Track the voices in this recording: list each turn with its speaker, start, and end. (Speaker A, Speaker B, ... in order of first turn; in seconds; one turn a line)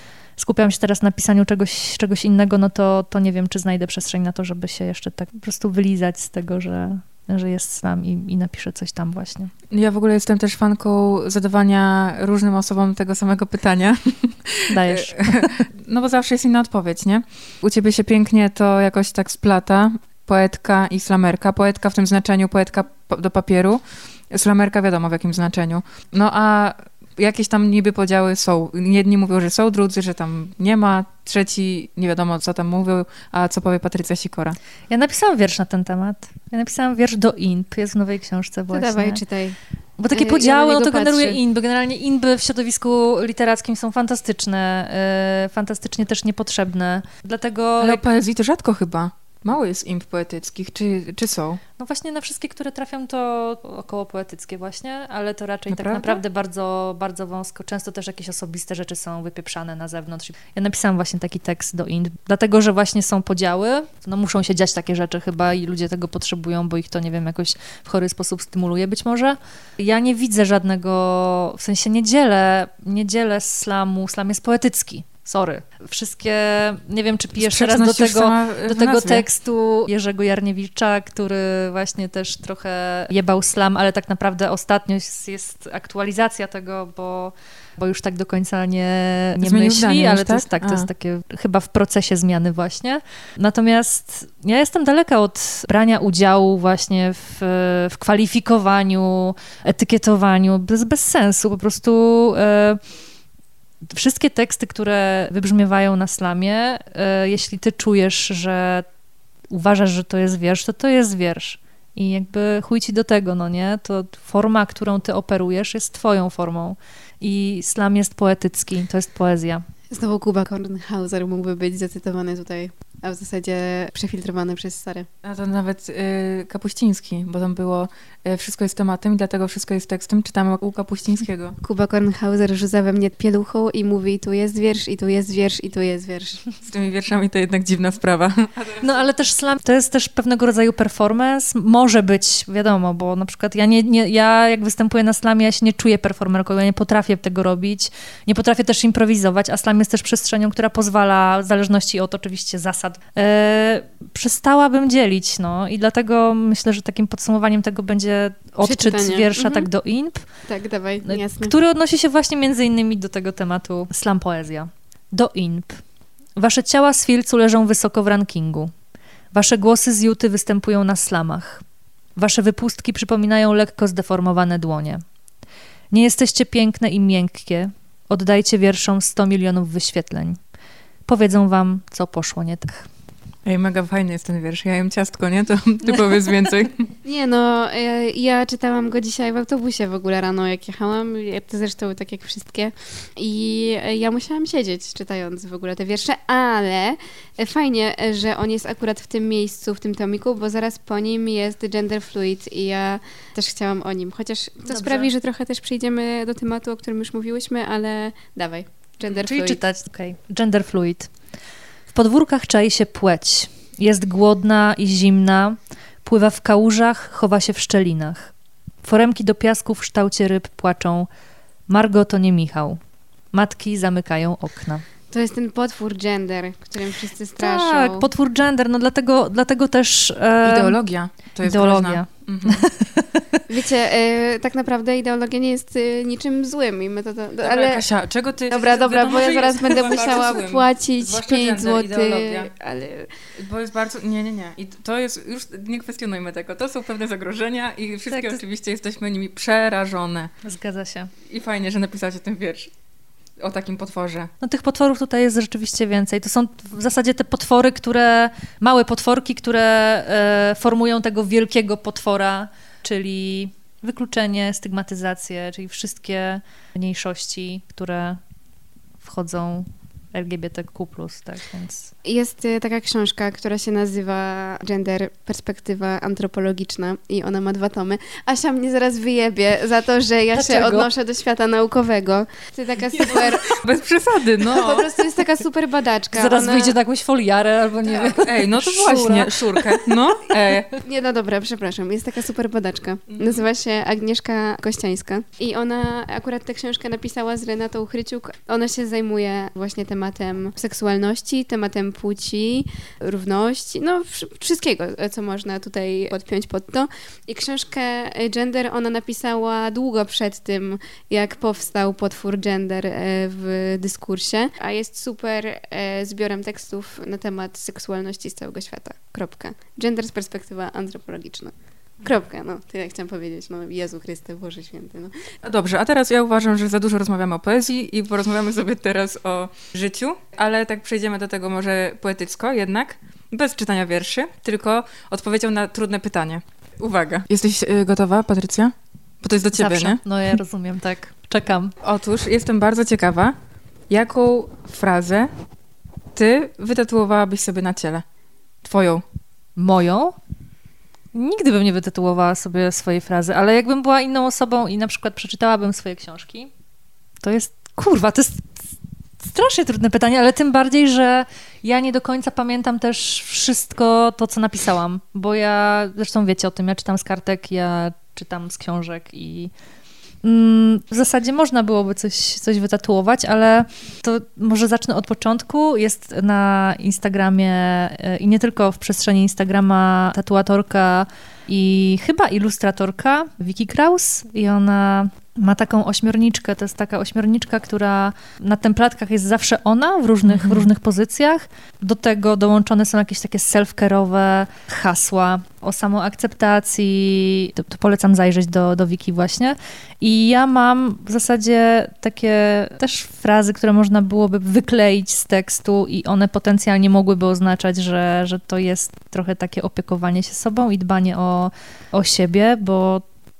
Speaker A: 0.4-9.5
Speaker B: 9.7-34.6
Speaker A: 14.7-15.6
Speaker A: 34.9-39.2
Speaker C: 38.7-39.6
Speaker A: 40.0-48.0
Speaker C: 40.1-41.4
Speaker B: 47.8-51.6
Speaker A: 51.8-102.8
Speaker B: 55.7-56.2
Speaker B: 77.4-79.2
Speaker B: 89.4-90.9
Speaker A: 103.9-108.8
Speaker A: 109.5-119.6
Speaker C: 119.9-125.1
Speaker B: 125.2-131.6
Speaker C: 131.6-136.5
Speaker B: 136.6-139.1
Speaker A: 138.8-160.2
Speaker C: 158.6-159.7
Speaker C: 160.5-161.5
Speaker A: 161.0-165.8
Speaker A: 166.4-168.7
Speaker A: 169.3-171.6
Speaker A: 172.2-175.0
Speaker A: 175.9-180.4
Speaker A: 181.1-182.9
Speaker B: 183.4-186.9
Speaker C: 187.0-209.6
Speaker A: 204.7-205.1
Speaker A: 209.2-211.1
Speaker A: 211.9-218.3
Speaker A: 218.8-221.1
Speaker A: 221.7-222.8
Speaker A: 223.3-224.8
Speaker C: 225.1-228.1
Speaker A: 227.4-230.8
Speaker B: 230.4-232.7
Speaker A: 231.4-233.4
Speaker C: 233.5-237.8
Speaker B: 237.4-242.5
Speaker C: 238.5-243.1
Speaker B: 243.3-250.3
Speaker A: 248.1-248.4
Speaker A: 250.4-251.1
Speaker B: 251.2-252.7
Speaker B: 253.4-254.3
Speaker A: 254.4-268.2
Speaker A: 269.0-271.9
Speaker C: 272.0-283.6
Speaker A: 280.3-280.9
Speaker B: 283.1-284.9
Speaker C: 284.4-286.8
Speaker A: 286.1-289.9
Speaker B: 287.8-290.7
Speaker C: 290.8-325.1
Speaker B: 293.1-293.4
Speaker B: 325.4-340.0
Speaker A: 339.5-341.7
Speaker B: 341.8-343.3
Speaker B: 343.9-345.3
Speaker B: 346.1-348.0
Speaker B: 348.6-349.0
Speaker A: 349.6-350.1
Speaker A: 351.1-356.5
Speaker A: 357.2-358.6
Speaker A: 359.2-369.5
Speaker A: 370.2-413.0
Speaker B: 390.2-390.7